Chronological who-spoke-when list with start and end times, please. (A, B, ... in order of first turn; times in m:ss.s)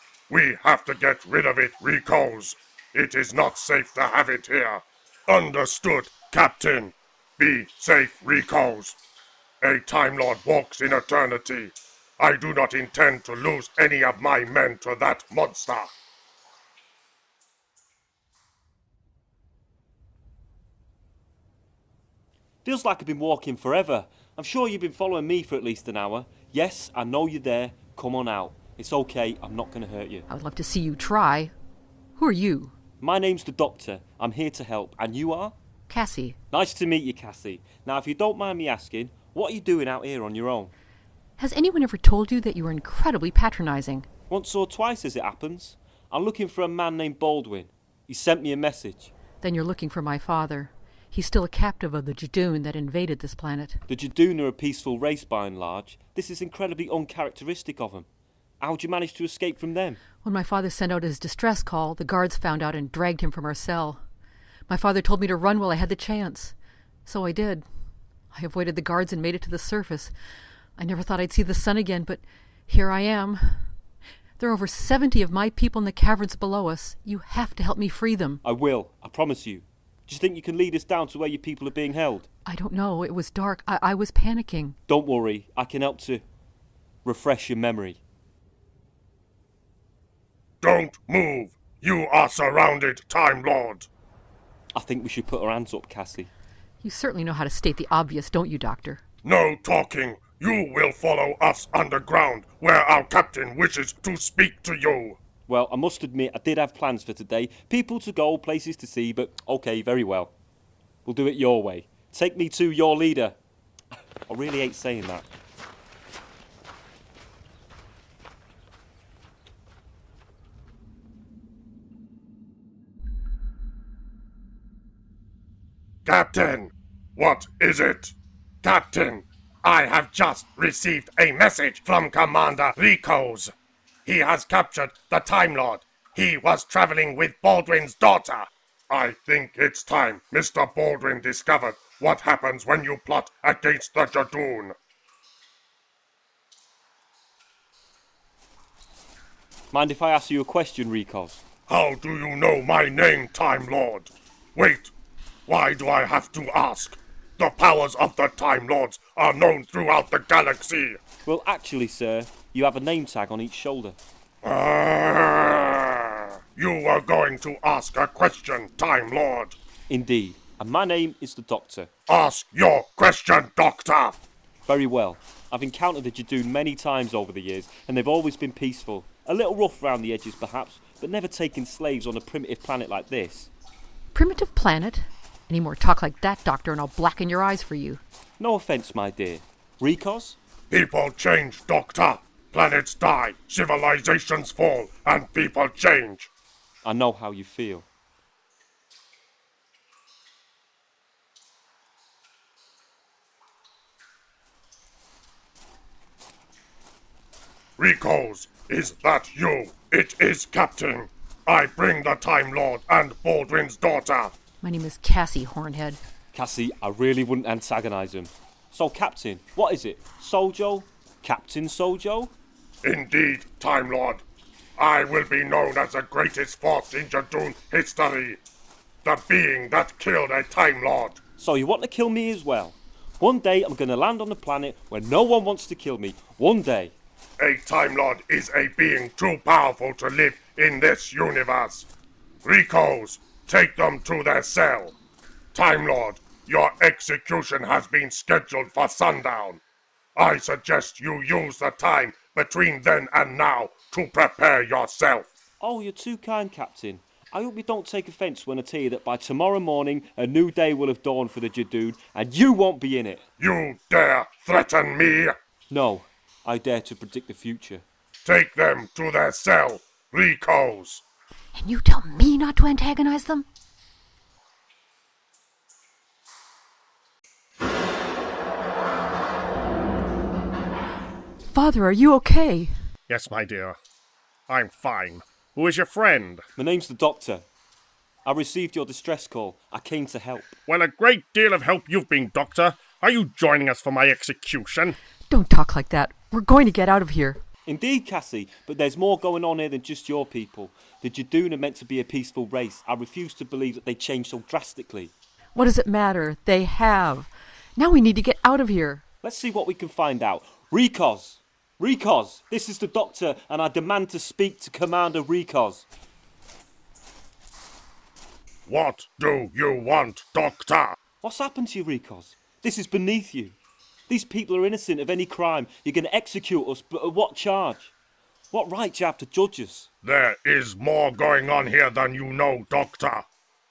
0:00.3-0:09.0 A
0:09.6-0:15.9 A
0:22.6-0:30.3 B
0:30.3-0:31.5 C
0:32.2-0:32.8 C
0:33.0-0:35.6 B
0:35.9-0:36.4 C
0:36.5-0:40.7 B
0:41.4-0:44.1 C
0:44.3-0:49.1 B
0:49.4-0:53.8 C
0:53.9-0:58.1 B
0:58.6-1:00.0 B
1:00.2-1:04.0 C
1:04.7-1:06.5 C
1:07.0-1:07.6 C
1:08.3-1:10.1 C
1:10.8-1:13.7 C
1:14.4-1:18.4 C
1:18.4-1:22.3 B
1:22.5-1:24.8 C
1:24.9-1:26.2 B
1:27.0-1:28.0 B
1:30.6-1:33.9 A
1:34.8-1:36.3 B
1:36.8-1:39.0 C
1:39.2-1:45.2 A
1:45.5-1:50.3 B
1:51.1-1:53.4 B
1:54.3-1:55.3 B
2:06.0-2:13.5 A
2:14.0-2:24.8 A
2:29.7-2:31.4 B
2:31.7-2:34.9 A
2:35.5-2:41.0 A
2:41.3-2:44.0 B
2:44.4-2:49.6 A
2:49.9-2:51.9 B
2:52.1-2:54.2 A
2:54.7-3:03.5 B
3:04.1-3:08.0 C
3:08.4-3:10.4 B
3:10.7-3:16.3 A
3:16.8-3:17.9 B
3:27.8-3:34.4 A
3:34.6-3:36.0 C
3:36.3-3:42.3 B
3:42.8-3:44.2 A
3:44.8-3:48.4 A
3:49.0-3:51.2 A
3:51.4-3:57.0 B
3:57.4-4:01.9 A
4:02.4-4:05.0 A
4:05.5-4:09.6 A
4:10.2-4:15.3 A
4:15.6-4:23.3 B
4:23.4-4:25.4 A
4:25.7-4:27.8 B
4:28.2-4:31.0 A
4:31.6-4:33.5 C
4:41.5-4:42.7 C
4:43.1-4:43.8 D
4:44.5-4:46.4 D
4:46.6-4:47.4 B
4:48.3-4:50.6 B
4:50.7-4:55.0 D
4:55.3-4:57.4 C
4:57.7-5:05.1 B
5:05.6-5:09.0 C
5:09.2-5:15.9 B
5:18.7-5:21.0 A
5:21.2-5:23.6 B
5:24.1-5:27.9 B
5:28.5-5:29.9 B
5:30.0-5:33.3 A